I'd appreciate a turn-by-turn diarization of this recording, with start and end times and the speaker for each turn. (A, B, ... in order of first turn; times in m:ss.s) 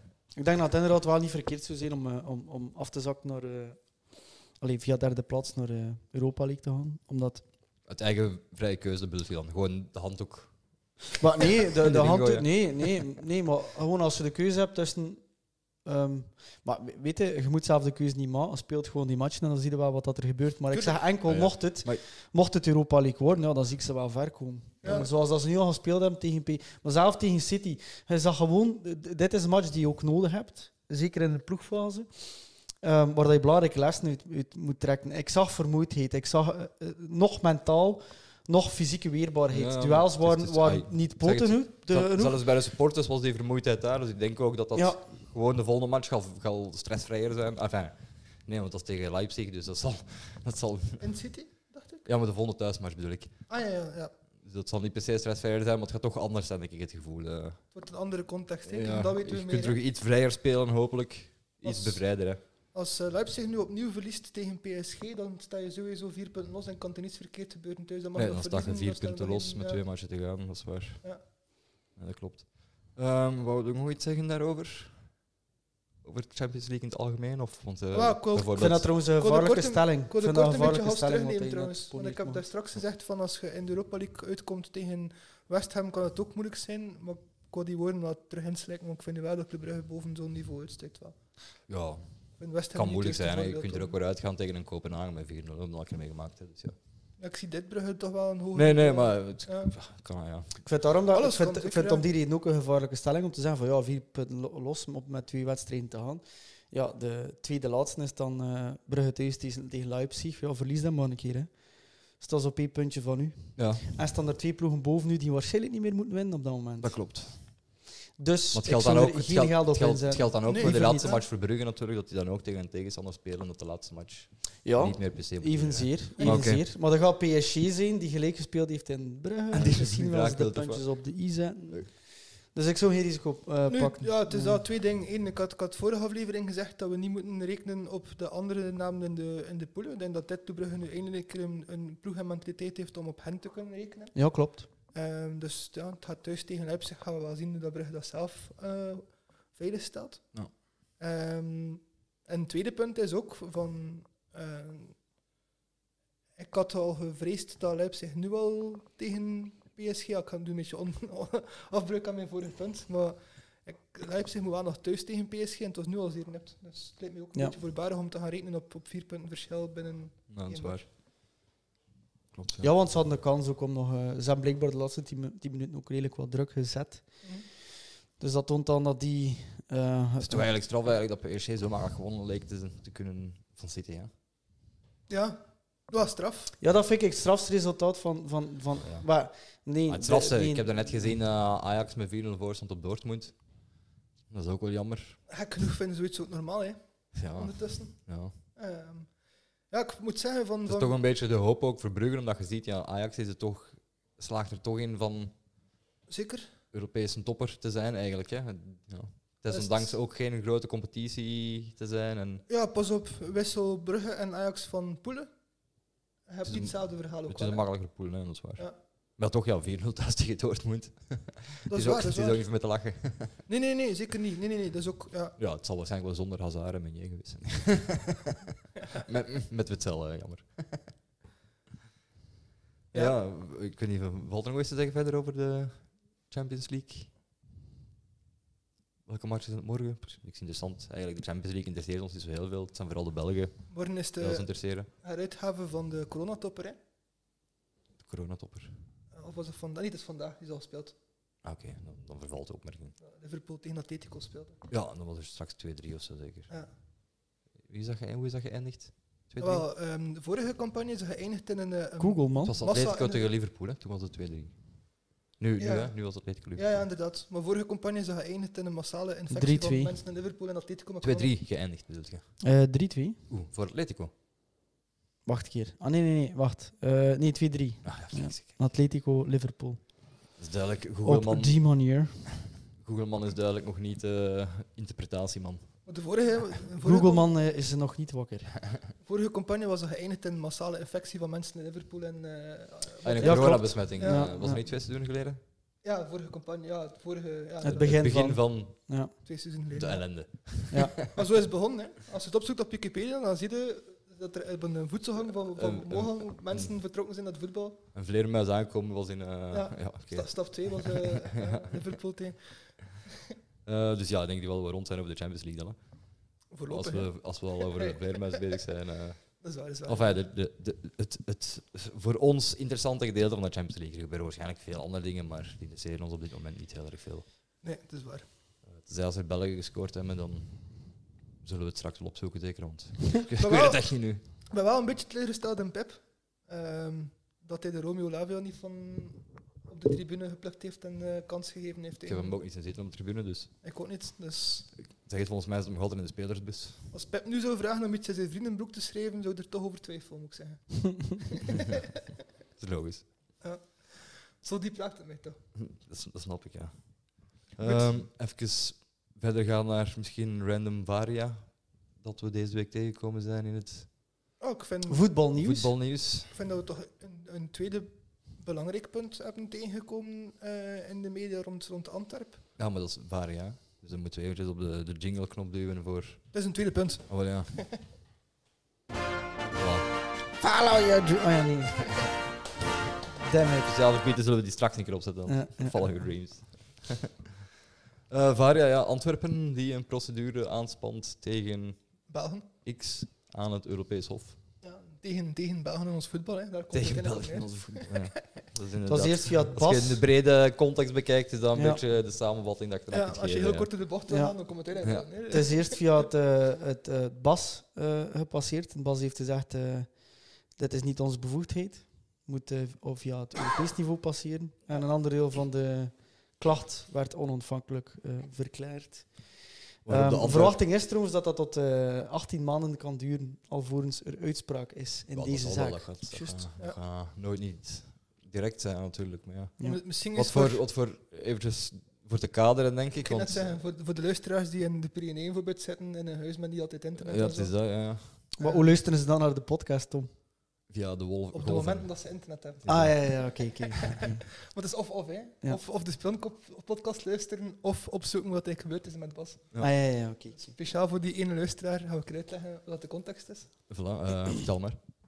0:00.4-0:07.4 A
0:07.9-0:10.5 B
0:11.1-0:13.0 B
0:11.2-0:15.2 A
0:15.8-0:42.4 A
0:20.7-0:21.0 C
0:21.2-0:22.0 B
0:24.8-0:25.1 C
0:39.5-0:51.0 B
0:44.7-0:45.0 A
0:51.0-0:52.0 C
0:52.0-0:53.4 B
0:53.5-0:54.1 C
0:54.4-0:57.6 B
0:57.7-0:59.8 C
0:58.7-1:02.4 B
1:01.6-1:09.8 C
1:08.1-1:11.0 B
1:11.9-1:15.1 B
1:16.0-1:18.9 B
1:17.9-1:31.2 C
1:18.6-1:22.4 A
1:31.7-1:32.0 B
1:32.4-1:33.9 C
1:32.7-1:36.8 B
1:37.2-1:39.7 C
1:38.5-1:40.6 B
1:40.6-1:51.5 A
1:41.1-1:42.1 C
1:52.1-1:57.5 A
1:53.6-1:53.8 B
1:56.8-1:57.6 B
1:58.2-2:01.2 A
1:58.5-2:06.6 B
2:00.4-2:01.2 C
2:04.6-2:14.6 A
2:06.2-2:06.4 C
2:09.5-2:10.9 B
2:13.7-2:24.2 C
2:24.1-2:24.7 A
2:24.9-2:30.3 C
2:31.0-2:34.9 C
2:36.4-2:50.8 C
2:50.3-2:50.8 B
2:52.3-2:52.7 B
2:52.6-2:57.2 A
2:58.2-3:00.5 A
3:00.2-3:04.1 B
3:05.1-3:06.6 C
3:06.6-3:11.1 A
3:09.9-3:13.4 B
3:14.3-3:15.2 B
3:15.3-3:19.1 C
3:17.1-3:18.3 B
3:19.7-3:21.0 C
3:20.6-3:25.3 B
3:26.1-3:26.5 C
3:26.7-3:32.4 B
3:29.5-3:29.9 C
3:32.5-3:35.3 C
3:36.3-3:37.8 C
3:36.4-3:43.4 B
3:41.7-3:42.4 C
3:43.5-3:45.4 C
3:45.4-3:50.9 B
3:52.9-3:57.1 B
3:59.0-4:04.9 B
4:03.7-4:06.8 C
4:08.0-4:08.7 B
4:09.1-4:10.9 C
4:11.4-4:12.9 B
4:13.0-4:14.6 C
4:14.7-4:16.5 B
4:17.7-4:19.6 B
4:19.4-4:23.3 C
4:22.0-4:22.6 A
4:22.4-4:24.6 B
4:25.3-4:26.8 B
4:25.6-4:31.3 C
4:29.3-4:30.0 A
4:31.0-4:32.4 B
4:32.4-4:33.2 A
4:33.3-4:34.1 B
4:35.2-4:39.9 A
4:37.8-4:38.5 B
4:40.4-4:41.7 B
4:41.0-4:42.3 A
4:42.7-4:45.8 B
4:45.8-4:47.3 C
4:46.8-4:48.6 A
4:49.0-4:54.3 C
4:53.0-4:55.4 B
4:53.2-4:54.6 A
4:55.8-4:58.1 C
4:57.6-4:59.1 A
4:57.7-4:58.9 B
4:59.2-5:07.8 C
4:59.7-5:01.1 B
5:00.7-5:01.0 A
5:05.5-5:06.7 B
5:07.9-5:11.8 B
5:09.5-5:13.3 C
5:13.6-5:15.8 B
5:16.5-5:18.4 C
5:16.7-5:27.2 B
5:19.4-5:20.2 C
5:27.6-5:28.2 C
5:28.7-5:30.6 B
5:31.4-5:34.2 B
5:33.3-5:42.4 C
5:42.0-5:43.5 B
5:43.6-5:44.7 C
5:44.9-5:46.9 B
5:46.9-5:51.8 C
5:52.6-5:53.0 B
5:53.4-5:55.4 C
5:55.6-6:03.9 B
5:57.6-5:58.0 C
6:04.4-6:05.1 C
6:04.9-6:05.7 A
6:05.4-6:06.3 B
6:06.2-6:12.4 C
6:12.6-6:16.3 B
6:16.3-6:17.8 C
6:17.1-6:17.6 B
6:19.5-6:19.9 B
6:20.4-6:22.0 A
6:23.2-6:23.7 A
6:23.6-6:27.2 B
6:25.3-6:26.0 A
6:28.1-6:31.8 B
6:32.1-6:32.5 C
6:32.6-6:34.4 B
6:34.6-6:38.2 C
6:36.7-6:43.7 B
6:38.9-6:40.0 A
6:41.5-6:41.8 A
6:42.9-6:46.0 C
6:44.1-6:44.4 A
6:45.3-7:05.9 A
6:59.8-7:00.6 B
7:05.1-7:13.5 B
7:06.1-7:06.8 C
7:09.6-7:10.6 C
7:13.0-7:17.6 C
7:17.0-7:18.2 B
7:18.2-7:18.7 C
7:18.4-7:20.1 A
7:20.7-7:21.9 B
7:21.3-7:29.6 C
7:22.6-7:23.0 B
7:22.7-7:24.2 A
7:29.6-7:30.5 A
7:30.3-7:33.5 C
7:33.7-7:34.8 B